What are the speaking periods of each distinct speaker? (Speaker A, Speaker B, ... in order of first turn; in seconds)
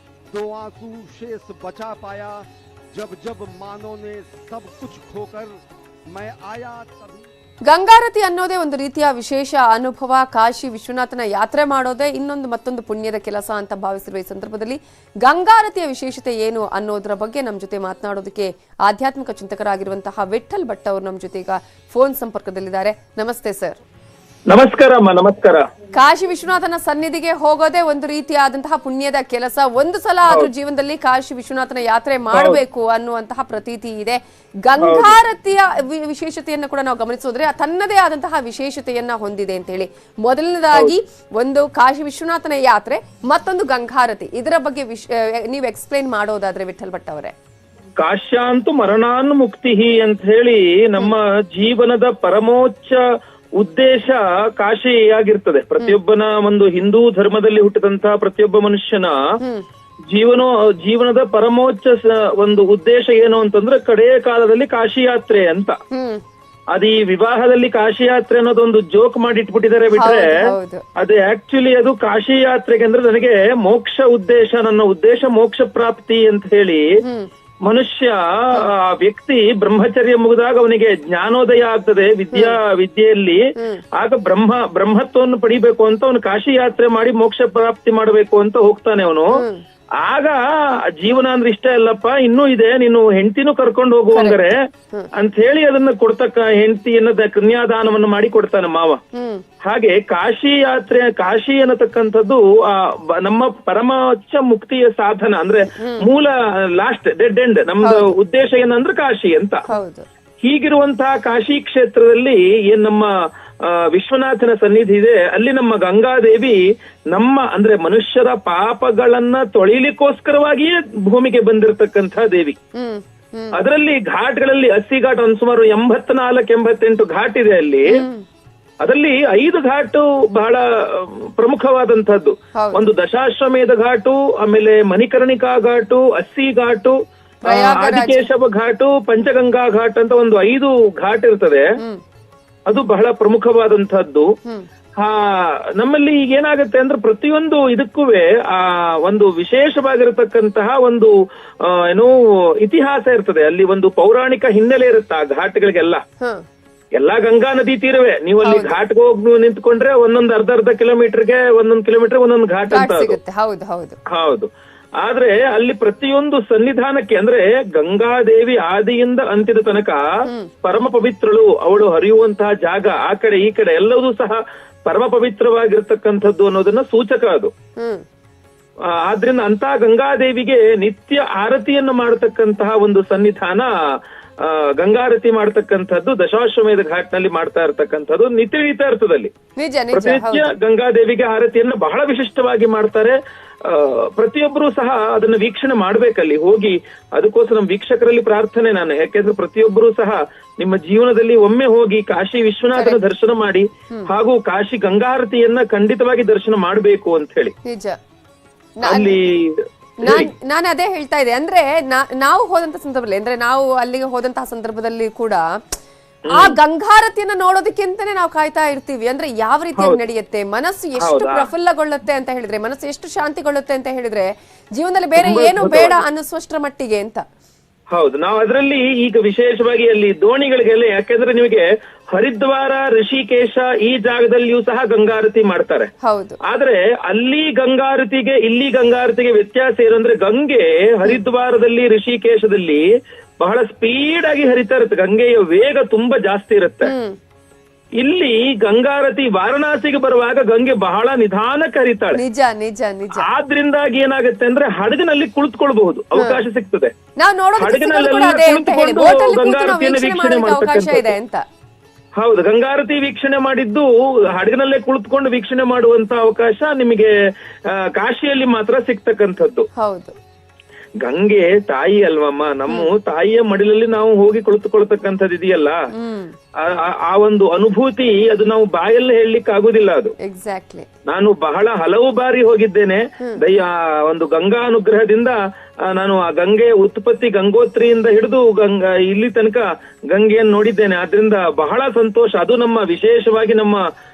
Speaker A: 0.3-7.3
Speaker B: 7.7-23.8, 25.9-47.3, 65.9-66.2, 69.9-70.8, 77.0-77.3, 82.3-82.6, 83.6-83.8, 89.3-89.6, 94.1-95.1, 99.1-99.4, 105.8-106.1, 107.8-108.1, 109.7-110.0, 122.7-123.5, 127.9-128.2, 132.6-132.8, 137.4-138.3, 158.4-158.8, 162.7-164.0, 177.8-178.0, 189.6-190.5, 202.7-203.0, 207.7-208.0, 208.8-209.2, 210.0-215.4, 216.3-227.2, 236.0-236.4, 246.8-247.2, 252.2-253.3, 256.2-256.4, 257.2-261.4, 269.8-270.1, 275.9-276.4, 280.2-280.9
Speaker C: 24.5-25.7, 32.3-32.6, 34.8-35.2, 48.0-53.0, 53.6-59.2, 60.1-65.8, 66.7-70.4, 71.0-76.8, 77.7-83.4, 84.0-89.4, 90.0-90.4, 91.0-94.6, 95.2-99.0, 99.6-109.7, 110.4-113.1, 113.9-116.6, 117.1-122.6, 123.6-128.0, 128.8-141.7, 142.7-144.3, 145.0-151.1, 151.6-156.0, 157.0-163.2, 164.1-164.5, 165.0-170.0, 170.6-177.5, 178.9-183.7, 184.4-189.3, 189.9-207.5, 208.8-210.3, 221.0-221.5, 225.2-226.0, 227.9-235.9, 236.5-242.8, 243.4-246.9, 248.0-252.2, 253.2-256.9, 257.6-261.2, 262.2-267.1, 267.7-269.7, 271.0-275.8, 276.6-280.1, 281.1-293.8